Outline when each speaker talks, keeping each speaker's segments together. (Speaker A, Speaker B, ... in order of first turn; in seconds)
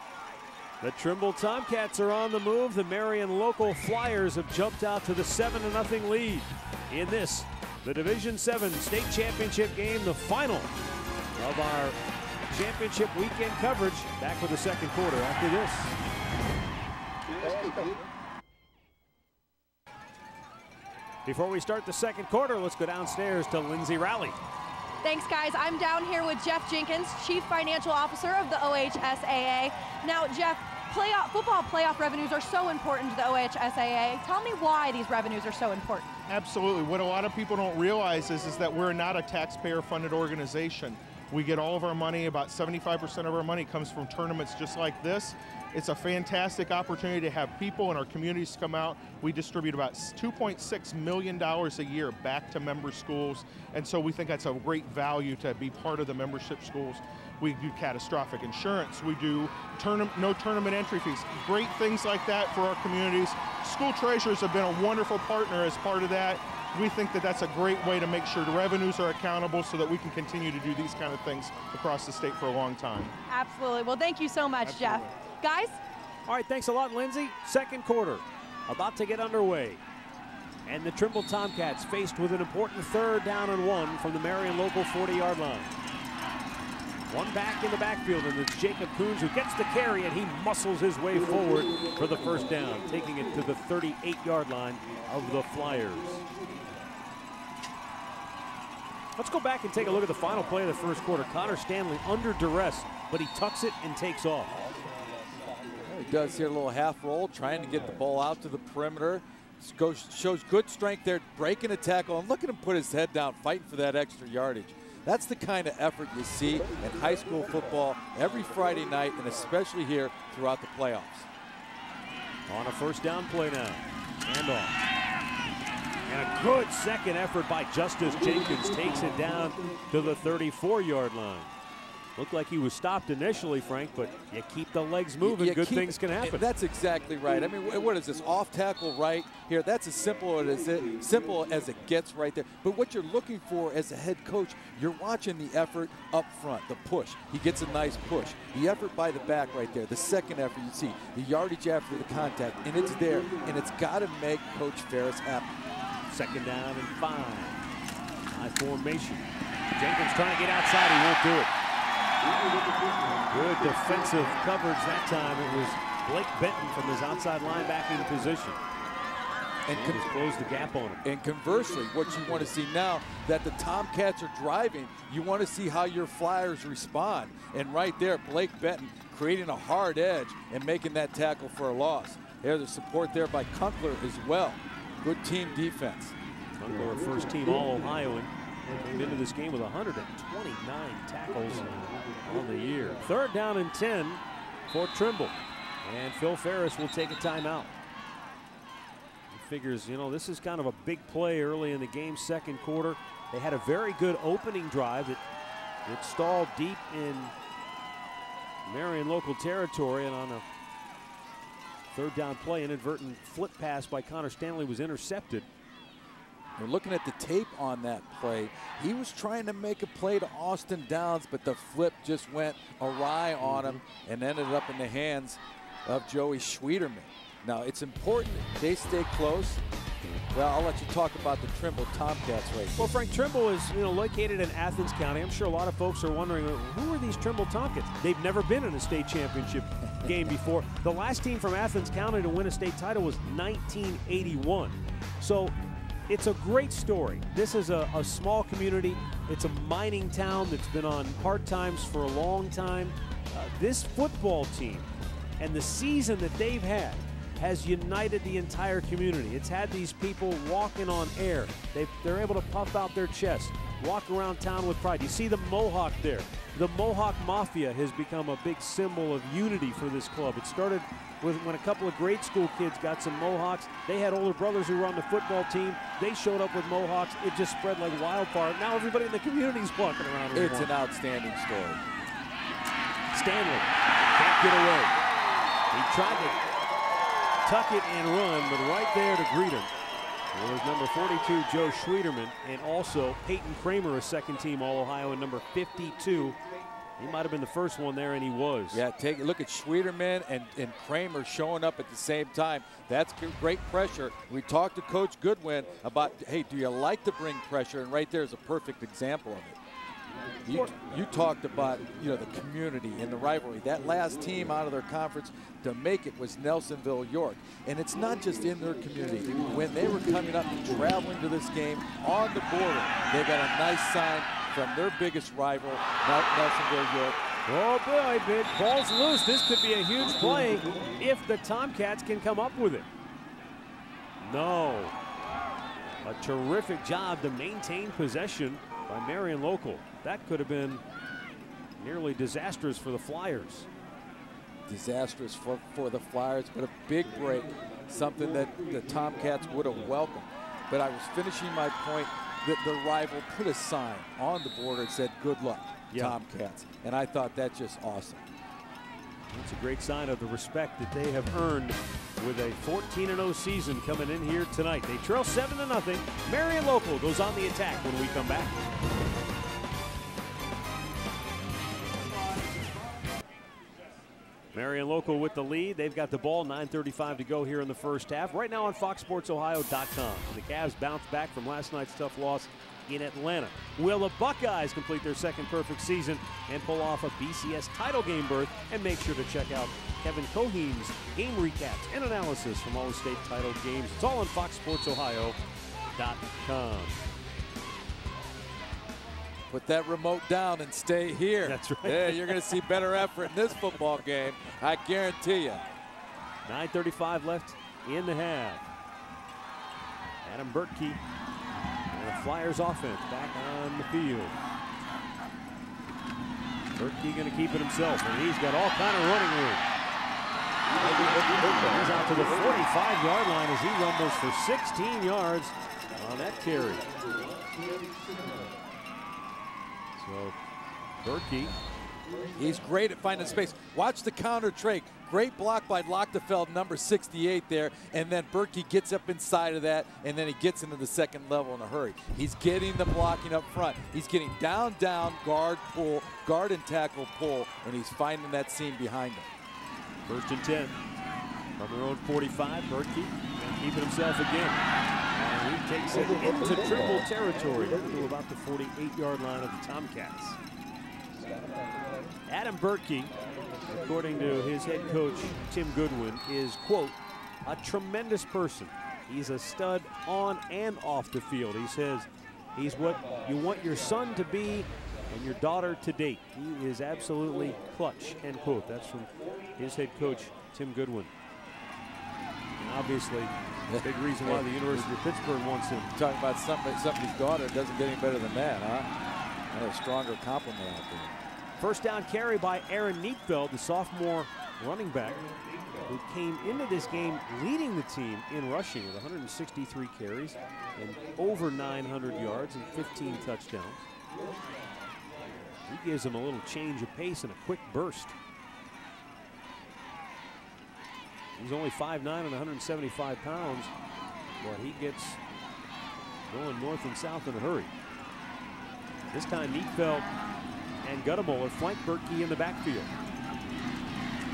Speaker A: 0.8-10.7, 11.4-12.0, 12.5-16.0, 21.2-24.4, 76.3-79.8, 80.7-85.7, 87.1-96.2, 99.2-104.6, 122.5-124.7, 126.1-131.5, 132.2-136.4, 156.1-157.6, 158.3-161.5, 163.3-168.6, 169.7-171.1, 186.6-197.7, 199.3-205.2, 205.9-207.3, 208.7-210.4, 211.9-215.5, 223.4-223.8, 232.8-245.6, 246.1-280.7, 283.1-284.9, 285.7-286.4, 287.4-289.7, 290.3-296.4, 297.0-298.8, 310.5-310.8, 327.5-332.9, 334.2-334.9, 336.0-340.8, 341.8-343.7, 355.9-356.2, 359.3-368.6, 374.5-395.4, 395.9-397.0, 401.4-402.7, 406.4-408.6, 410.2-411.0, 411.9-414.4, 416.7-419.6, 421.3-426.9, 430.0-430.4, 431.0-431.5, 450.1-450.8, 451.6-454.6, 455.1-460.4, 462.3-481.1, 482.6-485.9, 491.6-495.3, 495.9-503.9, 505.7-508.1, 511.4-513.7, 514.4-515.2, 516.3-517.7, 519.1-520.1, 520.8-522.9
Speaker B: 25.0-36.1, 73.3-75.8
Speaker C: 36.3-73.1, 74.6-75.0
Speaker D: 105.8-121.3, 135.2-155.5, 169.7-170.1, 171.0-186.1, 216.6-229.6, 230.3-232.9, 280.3-281.8, 298.7-309.6, 310.4-327.2, 344.7-358.2, 399.5-405.6, 432.3-449.3, 483.7-484.9, 485.9-488.9, 489.5-491.2